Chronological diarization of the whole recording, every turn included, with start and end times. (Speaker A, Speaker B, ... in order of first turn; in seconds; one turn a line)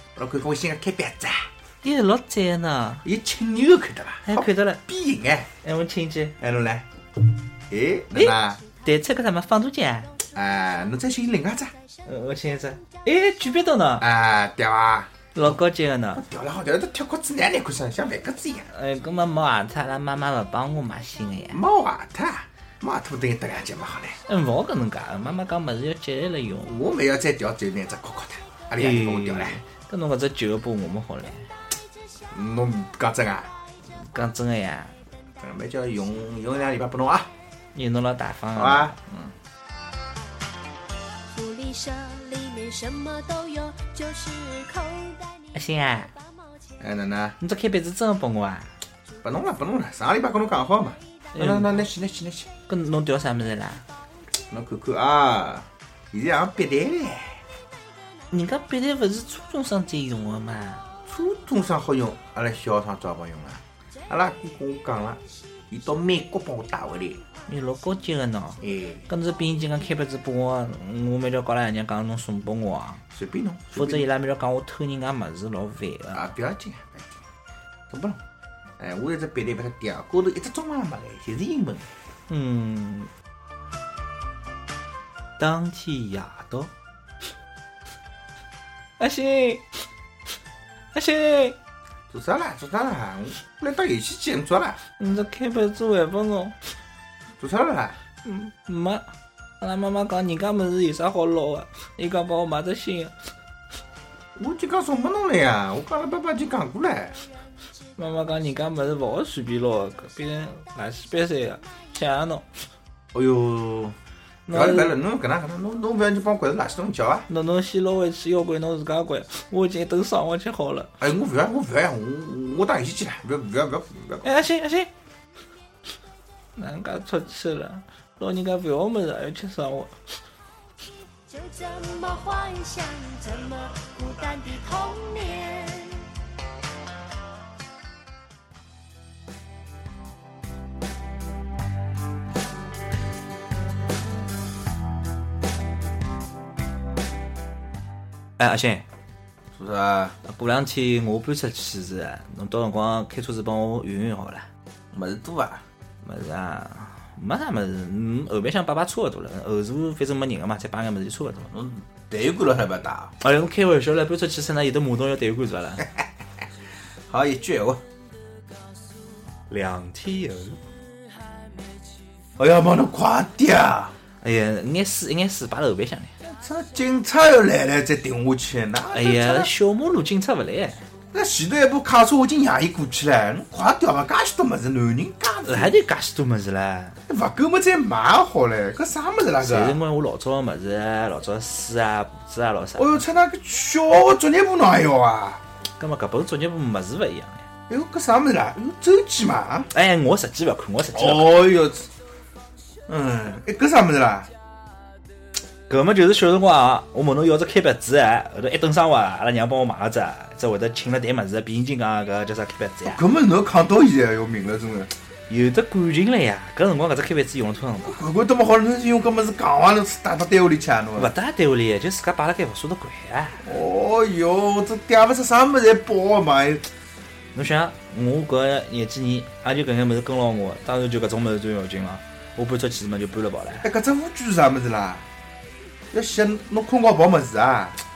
Speaker A: 0.2-1.5
Speaker B: 1.8-3.0
Speaker A: 3.0-5.5
Speaker B: 4.3-4.8
Speaker B: 5.6-6.3
Speaker A: 6.4-6.9
Speaker A: 7.7-8.6
Speaker B: 8.1-10.1
Speaker A: 10.3-11.7
Speaker B: 12.1-14.1
Speaker A: 14.0-15.5
Speaker B: 15.3-16.2
Speaker A: 16.1-18.7
Speaker B: 18.7-21.6
Speaker A: 21.5-24.2
Speaker B: 24.3-26.7
Speaker A: 26.6-29.6
Speaker B: 28.8-31.5
Speaker A: 32.3-33.5
Speaker B: 34.1-35.0
Speaker A: 35.4-37.3
Speaker B: 37.8-39.0
Speaker A: 38.5-39.3
Speaker C: 41.3-46.5
Speaker B: 45.5-46.1
Speaker A: 46.8-47.4
Speaker B: 47.4-48.7
Speaker A: 49.2-52.5
Speaker B: 51.3-51.8
Speaker B: 52.7-53.8
Speaker A: 54.4-57.4
Speaker B: 58.3-60.8
Speaker A: 61.1-67.2
Speaker B: 67.5-73.0
Speaker A: 68.6-69.0
Speaker A: 73.1-74.1
Speaker B: 73.8-76.2
Speaker A: 76.1-77.2
Speaker A: 77.9-78.2
Speaker A: 78.8-81.9
Speaker B: 82.3-83.1
Speaker B: 85.4-86.7
Speaker B: 89.0-89.9
Speaker B: 90.9-91.6
Speaker A: 92.1-94.8
Speaker B: 95.0-96.6
Speaker A: 97.4-98.0
Speaker B: 98.2-99.1
Speaker B: 99.6-103.2
Speaker A: 104.4-107.2
Speaker B: 108.0-112.6
Speaker A: 113.1-114.0
Speaker B: 114.5-115.0
Speaker A: 114.5-117.3
Speaker B: 117.3-120.9
Speaker A: 121.0-124.3
Speaker B: 124.2-124.9
Speaker B: 126.6-130.2
Speaker C: 131.3-136.1
Speaker B: 148.4-148.9
Speaker A: 149.6-150.2
Speaker B: 150.2-154.5
Speaker A: 154.9-155.6
Speaker B: 156.0-161.5
Speaker A: 161.5-163.2
Speaker B: 163.2-165.9
Speaker A: 167.1-167.8
Speaker B: 169.5-170.6
Speaker A: 172.4-173.9
Speaker B: 174.2-176.1
Speaker A: 176.2-179.5
Speaker B: 178.9-180.9
Speaker A: 181.1-185.8
Speaker B: 185.4-187.0
Speaker A: 187.1-189.8
Speaker B: 189.4-193.0
Speaker A: 192.8-195.4
Speaker B: 195.8-197.5
Speaker A: 197.7-199.7
Speaker B: 199.7-201.4
Speaker A: 200.9-201.9
Speaker A: 202.9-204.3
Speaker B: 205.7-213.0
Speaker A: 212.8-214.9
Speaker B: 215.3-218.0
Speaker A: 217.8-221.1
Speaker B: 221.0-223.5
Speaker A: 223.4-226.7
Speaker B: 227.3-233.7
Speaker A: 233.6-235.1
Speaker A: 235.9-237.8